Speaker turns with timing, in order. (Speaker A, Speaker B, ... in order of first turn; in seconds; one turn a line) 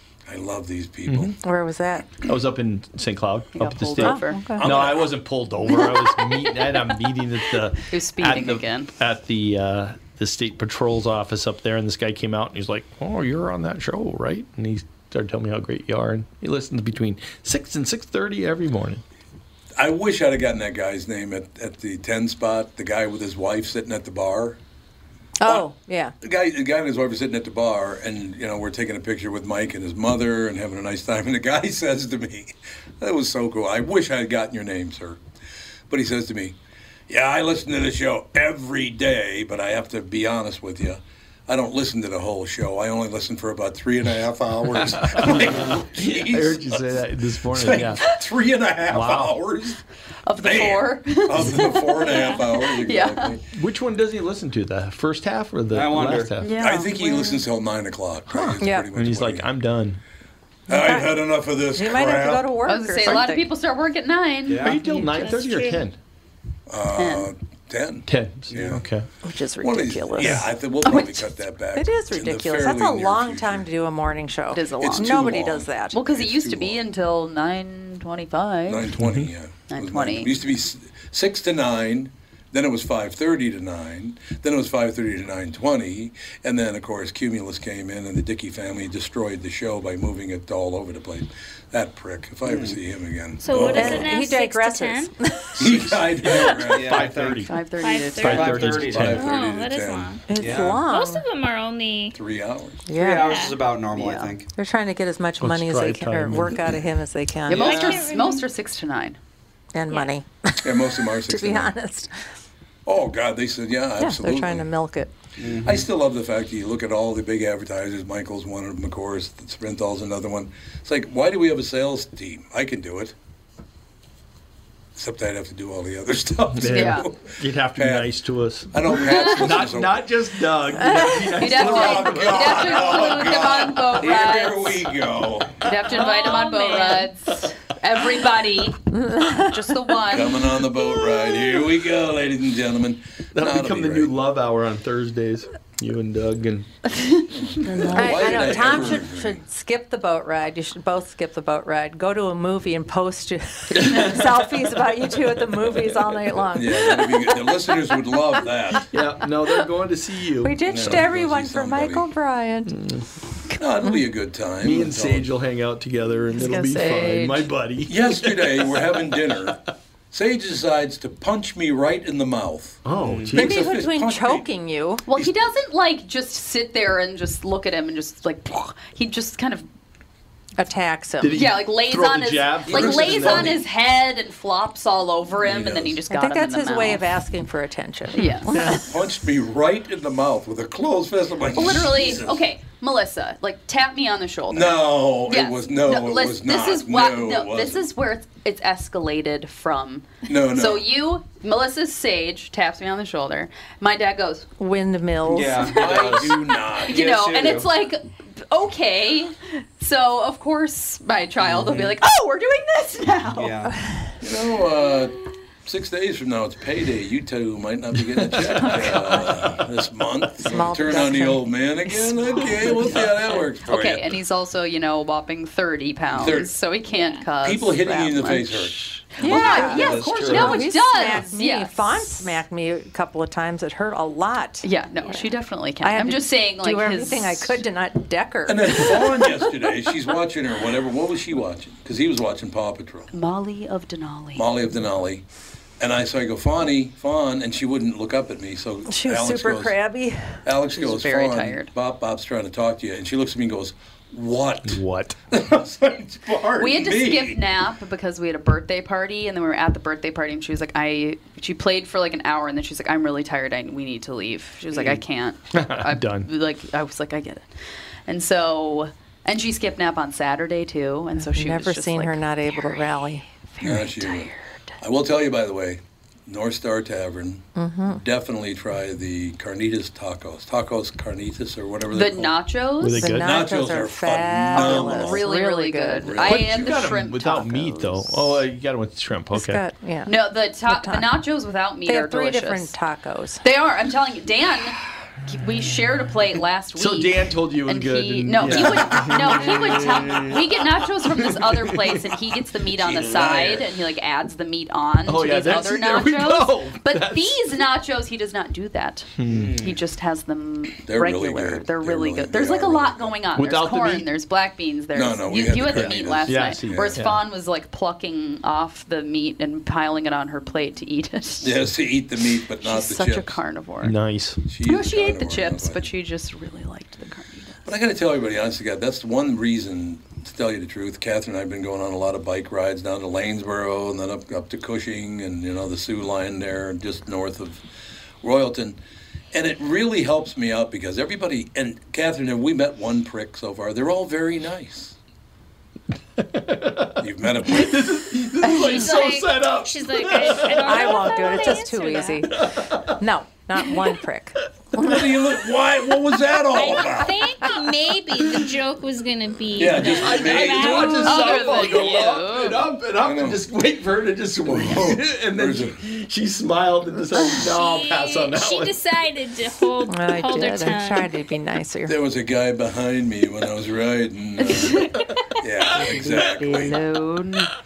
Speaker A: 0.3-1.4
Speaker B: 1.1-1.3
Speaker C: 1.4-2.1
Speaker B: 2.2-19.0
Speaker D: 3.5-4.5
Speaker C: 4.0-4.6
Speaker A: 4.6-5.1
Speaker D: 5.7-6.7
Speaker D: 7.9-8.9
Speaker A: 19.8-24.6
Speaker C: 25.4-26.1
Speaker A: 26.2-35.2
Speaker A: 35.9-36.6
Speaker A: 37.1-49.8
Speaker B: 44.8-48.0
Speaker B: 48.9-49.4
Speaker D: 50.2-53.4
Speaker A: 50.4-53.4
Speaker E: 52.1-52.5
Speaker B: 53.5-56.5
Speaker F: 55.7-56.3
Speaker D: 56.4-57.5
Speaker A: 56.6-59.5
Speaker B: 58.3-60.0
Speaker C: 58.6-58.9
Speaker A: 60.7-62.5
Speaker C: 60.7-63.5
Speaker D: 62.6-65.4
Speaker F: 64.5-64.8
Speaker B: 64.6-66.0
Speaker E: 65.1-65.8
Speaker A: 66.7-68.8
Speaker D: 66.9-67.3
Speaker B: 68.0-69.1
Speaker F: 68.5-68.8
Speaker C: 69.2-70.5
Speaker A: 69.6-73.7
Speaker D: 70.8-71.3
Speaker C: 71.8-76.0
Speaker D: 74.5-75.4
Speaker A: 74.8-76.8
Speaker D: 75.9-78.9
Speaker A: 78.7-94.2
Speaker B: 79.0-79.3
Speaker D: 79.7-80.3
Speaker F: 92.4-92.8
Speaker E: 93.4-95.1
Speaker C: 93.5-95.8
Speaker A: 95.6-97.1
Speaker B: 95.6-97.5
Speaker F: 96.7-97.5
Speaker D: 97.4-98.5
Speaker E: 97.8-102.2
Speaker B: 98.2-99.2
Speaker F: 98.2-99.2
Speaker A: 98.7-100.2
Speaker C: 100.2-101.2
Speaker F: 100.3-100.8
Speaker A: 102.1-102.8
Speaker C: 102.9-103.3
Speaker F: 102.9-104.5
Speaker E: 103.2-103.6
Speaker D: 103.9-104.3
Speaker C: 104.5-107.7
Speaker B: 105.4-106.6
Speaker D: 107.5-109.2
Speaker E: 107.5-108.4
Speaker F: 107.6-108.0
Speaker C: 109.7-112.1
Speaker A: 110.6-111.7
Speaker A: 112.8-114.7
Speaker C: 114.0-115.1
Speaker F: 115.4-115.9
Speaker A: 115.6-123.1
Speaker A: 125.0-128.2
Speaker B: 126.5-132.7
Speaker D: 126.7-127.1
Speaker A: 128.7-130.1
Speaker C: 130.8-131.3
Speaker D: 131.3-134.9
Speaker A: 131.5-135.7
Speaker D: 135.6-140.6
Speaker E: 135.8-137.1
Speaker C: 138.9-139.5
Speaker A: 140.1-144.1
Speaker B: 143.3-146.7
Speaker A: 147.3-149.4
Speaker D: 147.6-148.9
Speaker C: 147.9-157.5
Speaker B: 153.7-154.3
Speaker A: 156.5-158.9
Speaker B: 158.9-161.0
Speaker C: 160.4-162.8
Speaker A: 160.6-162.1
Speaker B: 162.7-163.0
Speaker A: 163.6-165.3
Speaker B: 164.6-169.5
Speaker D: 166.3-167.5
Speaker A: 167.9-169.6
Speaker A: 170.1-174.5
Speaker B: 172.8-173.7
Speaker F: 172.9-173.4
Speaker C: 173.3-175.1
Speaker D: 175.1-179.7
Speaker C: 180.6-181.5
Speaker B: 181.2-183.6
Speaker D: 181.3-187.1
Speaker A: 182.7-183.6
Speaker A: 185.4-186.0
Speaker C: 186.1-188.5
Speaker D: 188.1-188.9
Speaker B: 188.5-188.8
Speaker A: 188.8-192.4
Speaker D: 191.5-204.5
Speaker A: 194.5-197.8
Speaker A: 200.3-200.9
Speaker C: 204.6-205.6
Speaker F: 205.2-207.7
Speaker D: 205.3-213.6
Speaker A: 205.8-207.1
Speaker F: 211.4-212.0
Speaker F: 213.3-213.7
Speaker A: 214.2-224.2
Speaker B: 217.9-219.6
Speaker D: 218.6-219.3
Speaker C: 220.4-222.6
Speaker D: 222.8-232.1
Speaker A: 226.1-226.5
Speaker E: 226.9-227.3
Speaker A: 227.4-229.5
Speaker C: 229.2-239.3
Speaker F: 229.2-230.8
Speaker D: 234.6-237.6
Speaker A: 238.5-243.1
Speaker D: 243.1-244.5
Speaker A: 244.3-245.2
Speaker A: 245.8-249.7
Speaker C: 248.8-250.5
Speaker A: 250.4-257.4
Speaker D: 250.7-251.7
Speaker B: 254.6-255.2
Speaker D: 256.5-267.5
Speaker F: 264.7-265.0
Speaker B: 265.5-266.3
Speaker D: 268.1-274.5
Speaker C: 271.2-273.3
Speaker A: 273.6-282.4
Speaker C: 277.5-278.0
Speaker D: 281.9-283.1
Speaker B: 282.8-283.3
Speaker C: 282.9-286.2
Speaker A: 283.1-285.3
Speaker D: 284.5-288.2
Speaker A: 286.0-286.9
Speaker B: 286.2-289.6
Speaker C: 289.3-291.1
Speaker D: 290.1-292.7
Speaker C: 291.8-293.4
Speaker D: 293.4-321.6
Speaker B: 296.8-300.3
Speaker B: 301.2-301.9
Speaker A: 302.8-303.7
Speaker B: 305.1-307.4
Speaker B: 309.2-309.6
Speaker F: 309.3-309.8
Speaker A: 310.8-313.1
Speaker B: 313.4-314.1
Speaker A: 314.9-317.1
Speaker B: 315.7-317.2
Speaker A: 321.4-323.4
Speaker D: 322.6-323.9
Speaker B: 323.8-324.4
Speaker A: 324.5-325.9
Speaker D: 324.6-327.7
Speaker A: 327.6-337.6
Speaker A: 338.2-338.8
Speaker A: 339.3-344.9
Speaker B: 346.2-351.3
Speaker A: 347.0-347.8
Speaker D: 348.4-348.8
Speaker E: 348.6-352.3
Speaker C: 350.5-354.9
Speaker B: 352.3-353.0
Speaker A: 354.8-357.1
Speaker E: 356.5-361.5
Speaker A: 359.6-361.1
Speaker B: 359.8-368.8
Speaker D: 360.9-362.6
Speaker A: 363.0-363.4
Speaker A: 364.5-365.8
Speaker E: 367.4-371.2
Speaker C: 369.9-371.9
Speaker A: 371.9-376.8
Speaker D: 374.4-375.1
Speaker D: 375.7-377.5